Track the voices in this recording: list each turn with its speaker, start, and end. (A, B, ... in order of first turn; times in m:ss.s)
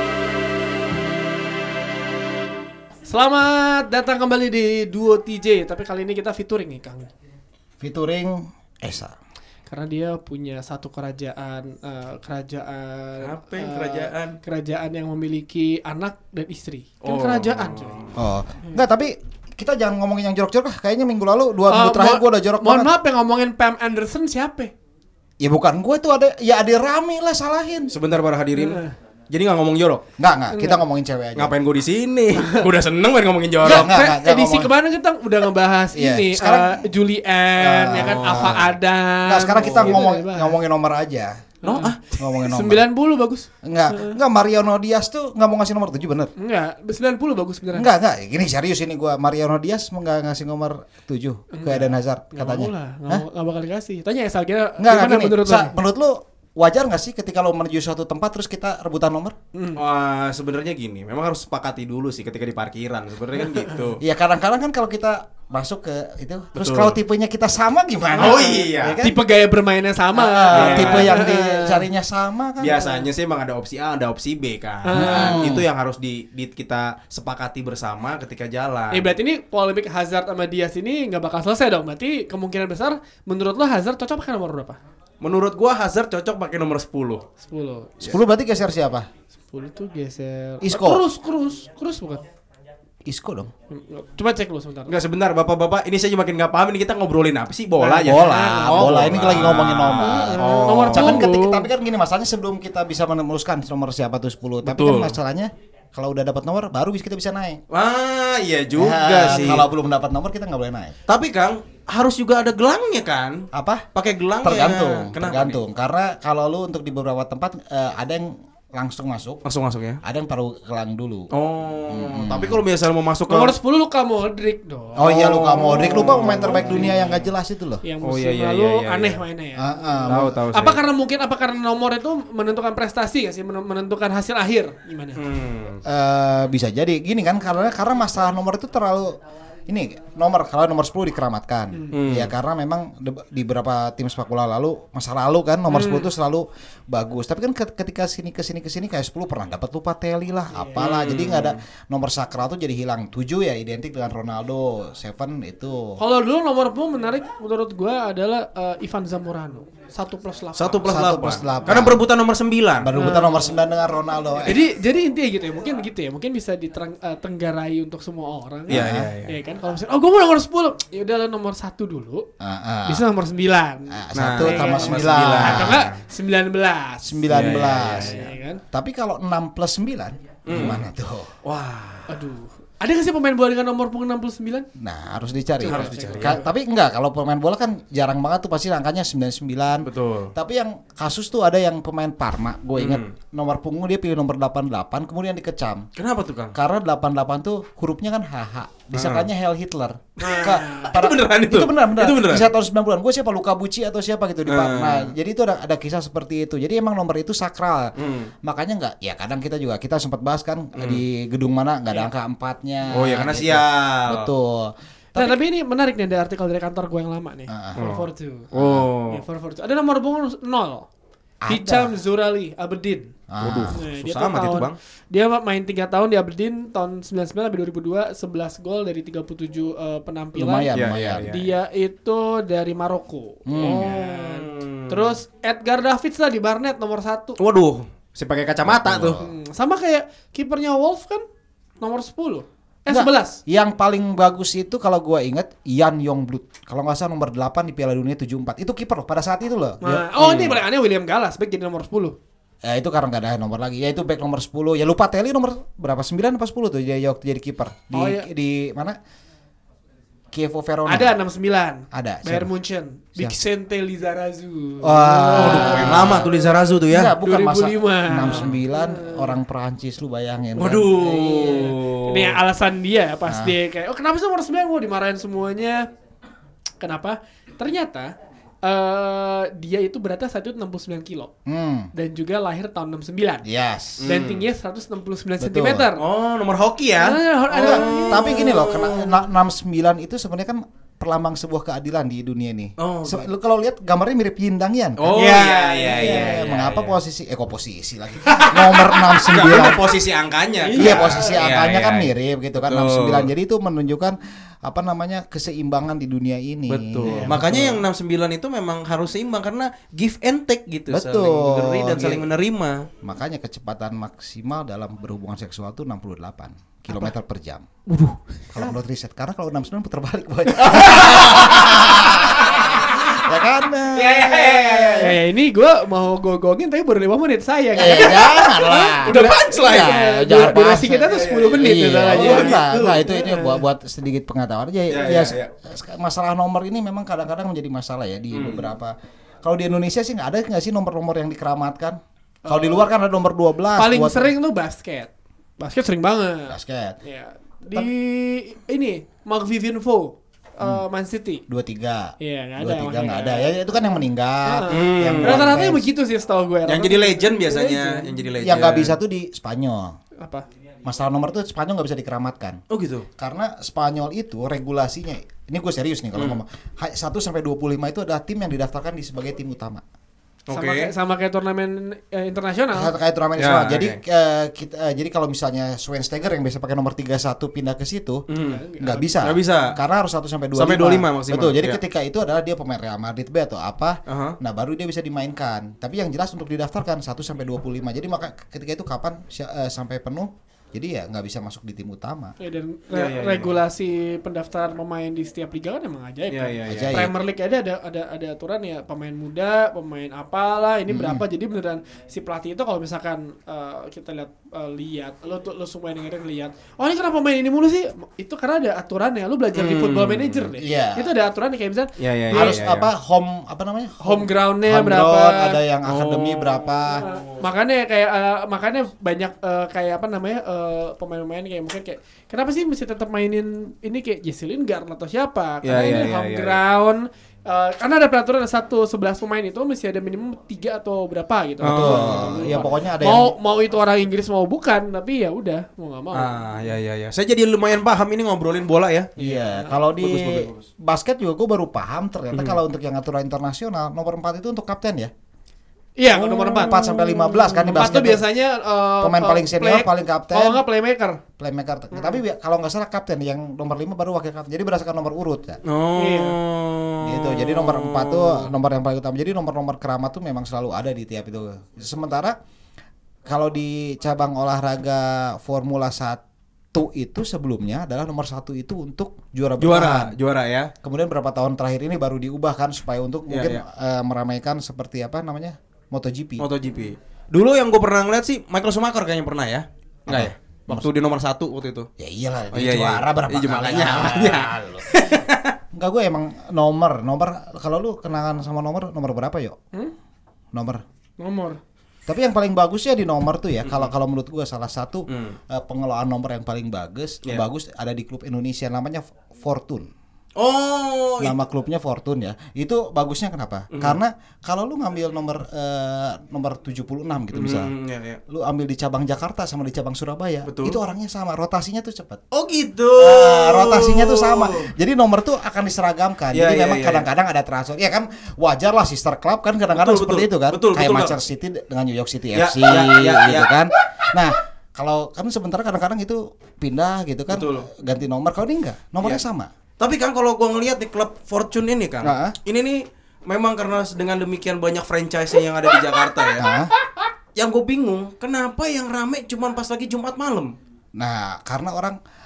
0:03.1-0:07.1 A
0:07.8-0:09.2 B
0:09.7-0:18.8 A
0:13.2-0:14.4 C
0:17.0-0:18.2 C
0:18.2-0:23.0 B
0:21.7-0:24.7 A
0:25.4-0:28.0 B
0:27.9-0:30.0 C
0:28.6-0:28.9 A
0:30.2-0:31.6 B
0:30.5-0:30.8 A
0:31.4-0:33.9 C
0:32.4-0:32.7 A
0:33.6-0:34.7 B
0:33.6-0:40.6 A
0:35.9-0:36.8 B
0:37.6-0:38.7 B
0:37.9-0:38.7 C
0:39.2-0:41.4 B
0:39.6-0:40.0 C
0:41.6-0:44.2 A
0:41.6-0:42.0 C
0:42.1-0:42.9 B
0:43.6-0:46.3 B
0:46.4-0:47.9 A
0:47.7-0:53.2 B
0:51.5-0:55.8 A
0:54.8-0:59.4 B
0:59.5-0:59.8 A
0:59.8-1:04.0 C
1:04.0-1:09.2 B
1:06.6-1:07.0 C
1:08.2-1:09.0 C
1:08.2-1:11.9 A
1:10.1-1:13.0 B
1:10.5-1:11.2 C
1:12.6-1:19.1 C
1:14.8-1:15.5 A
1:14.9-1:15.7 B
1:18.9-1:24.8 A
1:25.2-1:27.2 C
1:27.4-1:28.2 A
1:28.0-1:29.1 B
1:29.5-1:32.2 A
1:30.6-1:31.0 B
1:33.0-1:33.5 B
1:33.7-1:35.0 A
1:34.9-1:41.4 C
1:37.8-1:47.6 B
1:38.1-1:39.0 A
1:40.0-1:41.6 A
1:44.6-1:45.2 C
1:47.7-1:49.7 C
1:48.7-1:51.0 B
1:51.1-1:55.6 C
1:53.5-1:53.8 B
1:54.4-1:59.4 B
1:59.4-2:00.0 C
2:00.0-2:01.3 B
2:01.3-2:03.6 C
2:01.9-2:02.6 B
2:03.3-2:05.1 A
2:05.0-2:07.8 B
2:05.0-2:07.3 C
2:05.8-2:06.7 A
2:07.8-2:15.2 A
2:08.0-2:09.2 C
2:09.6-2:10.4 B
2:10.1-2:10.8 C
2:15.2-2:15.8 C
2:15.8-2:36.0 B
2:21.9-2:22.3 C
2:25.7-2:26.1 A
2:30.5-2:30.9 A
2:30.8-2:31.6 C
2:36.0-2:40.9 A
2:40.6-2:42.9 C
2:40.8-2:42.0 B
2:42.8-2:44.6 B
2:42.9-2:43.6 A
2:44.4-2:52.3 A
2:48.7-2:49.1 B
2:48.7-2:49.3 C
2:52.4-2:53.1 B
2:52.9-2:58.6 A
2:53.9-2:55.9 B
2:54.2-2:56.0 C
2:57.0-3:01.3 B
2:57.3-2:58.3 C
3:00.5-3:00.9 C
3:01.4-3:02.1 C
3:02.1-3:04.7 A
3:04.8-3:15.9 B
3:05.6-3:06.5 A
3:05.7-3:06.4 C
3:09.8-3:10.3 C
3:12.8-3:13.1 C
3:16.0-3:16.6 C
3:16.5-3:35.4 B
3:18.9-3:19.3 C
3:20.2-3:21.0 A
3:20.9-3:22.5 C
3:24.5-3:25.1 C
3:28.0-3:28.3 C
3:30.8-3:31.0 C
3:32.9-3:34.3 C
3:35.2-3:38.5 A
3:37.5-3:37.8 B
3:37.8-3:39.2 C
3:38.5-3:38.9 B
3:39.1-3:40.9 A
3:41.4-3:42.0 B
3:41.5-3:43.1 A
3:43.3-3:43.8 B
3:43.4-3:44.8 C
3:43.7-3:50.7 A
3:50.4-3:51.4 B
3:50.7-3:51.5 C
3:51.3-3:57.4 A
3:53.5-3:54.0 B
3:53.6-3:55.2 C
3:57.4-3:59.2 C
3:58.6-3:59.3 B
3:59.2-4:01.2 A
4:01.8-4:03.4 A
4:02.9-4:10.6 B
4:09.8-4:12.2 A
4:10.2-4:10.6 C
4:12.6-4:19.0 B
4:17.9-4:18.3 A
4:20.3-4:21.2 B
4:20.9-4:26.5 A
4:21.9-4:22.5 B
4:24.8-4:26.3 B
4:25.4-4:27.2 C
4:26.9-4:31.7 B
4:27.2-4:29.4 A
4:28.2-4:28.6 C
4:30.6-4:32.4 C
4:31.3-4:35.9 A
4:33.3-4:33.6 B
4:36.8-4:41.3 A
4:41.5-4:41.9 B
4:41.9-4:43.4 A
4:43.4-4:44.1 B
4:44.0-4:44.5 C
4:44.0-4:46.0 A
4:45.4-4:45.9 B
4:46.0-4:49.2 C
4:47.0-4:48.6 A
4:47.5-4:55.4 B
4:52.8-4:53.3 C
4:55.0-4:57.0 C
4:55.1-4:56.4 A
4:55.9-4:59.9 B
4:58.3-4:59.7 A
4:59.3-5:03.3 C
5:00.6-5:01.4 A
5:00.8-5:07.8 B
5:06.7-5:12.9 C
5:07.1-5:07.4 A
5:10.9-5:12.3 B
5:13.0-5:17.6 B
5:17.9-5:18.7 A
5:18.5-5:25.2 B
5:20.6-5:22.6 C
5:22.5-5:23.2 A
5:23.9-5:25.2 C
5:24.9-5:33.6 A
5:27.7-5:44.3 B
5:27.8-5:30.0 C
5:31.1-5:33.0 C
5:34.9-5:35.5 C
5:38.3-5:38.7 C
5:42.4-5:42.9 A
5:43.8-5:51.4 A
5:46.5-5:47.0 B
5:51.5-5:55.9 B
5:52.2-5:58.3 A
5:54.7-5:55.6 C
5:56.6-5:59.0 C
5:58.4-6:00.0 B
6:00.2-6:00.5 A
6:00.8-6:02.6 B
6:02.7-6:03.1 C
6:03.2-6:09.8 B
6:06.1-6:06.4 C
6:10.5-6:10.9 C
6:10.5-6:12.9 A
6:12.7-6:18.2 B
6:13.4-6:14.0 C
6:18.3-6:18.6 C
6:18.4-6:19.2 A
6:18.8-6:32.3 B
6:19.2-6:19.8 C
6:20.5-6:21.8 C
6:24.1-6:24.4 C
6:32.4-6:52.6 A
6:32.9-6:33.6 C
6:36.3-6:37.1 C
6:36.7-6:37.1 B
6:40.9-6:41.2 B
6:49.6-6:50.5 C
6:50.6-6:51.1 B
6:52.0-6:52.9 C
6:52.3-6:57.1 B
6:54.0-6:55.6 A
6:55.9-6:57.4 C
6:56.9-7:16.4 A
7:05.6-7:06.6 C
7:11.6-7:12.8 C
7:11.7-7:13.4 B
7:16.1-7:19.1 C
7:19.2-7:19.8 A
7:19.2-7:25.1 B
7:20.0-7:20.7 C
7:22.3-7:22.6 C
7:26.0-7:26.8 A
7:26.2-7:28.0 C
7:26.4-7:28.2 B
7:27.8-7:31.2 A
7:29.0-7:30.6 B
7:31.4-7:35.6 B
7:31.9-7:32.2 A
7:35.7-7:38.5 C
7:36.0-7:36.4 A
7:37.0-7:42.4 B
7:43.3-7:46.2 B
7:46.7-7:50.2 B
7:49.6-7:50.7 C
7:50.8-7:56.5 B
7:53.3-7:53.6 C
7:56.4-8:01.9 C
8:00.1-8:00.9 B
8:02.0-8:05.0 B
8:02.5-8:05.6 C
8:05.7-8:09.6 B
8:10.5-8:10.8 B
8:11.2-8:11.6 A
8:12.1-8:19.9 B
8:13.6-8:13.9 C
8:15.1-8:15.4 C
8:20.4-8:21.4 C
8:21.2-8:27.7 B
8:23.7-8:24.0 C
8:27.3-8:28.2 C
8:28.3-8:32.2 B
8:30.5-8:30.8 C
8:32.3-8:34.7 C
8:32.9-8:49.5 B
8:36.3-8:37.1 C
8:39.7-8:41.2 C
8:42.3-8:43.6 C
8:47.3-8:47.7 C
8:49.8-8:56.5 C
8:52.0-8:52.4 B
8:56.4-8:56.7 B
8:57.4-9:00.6 C
9:01.0-9:02.0 B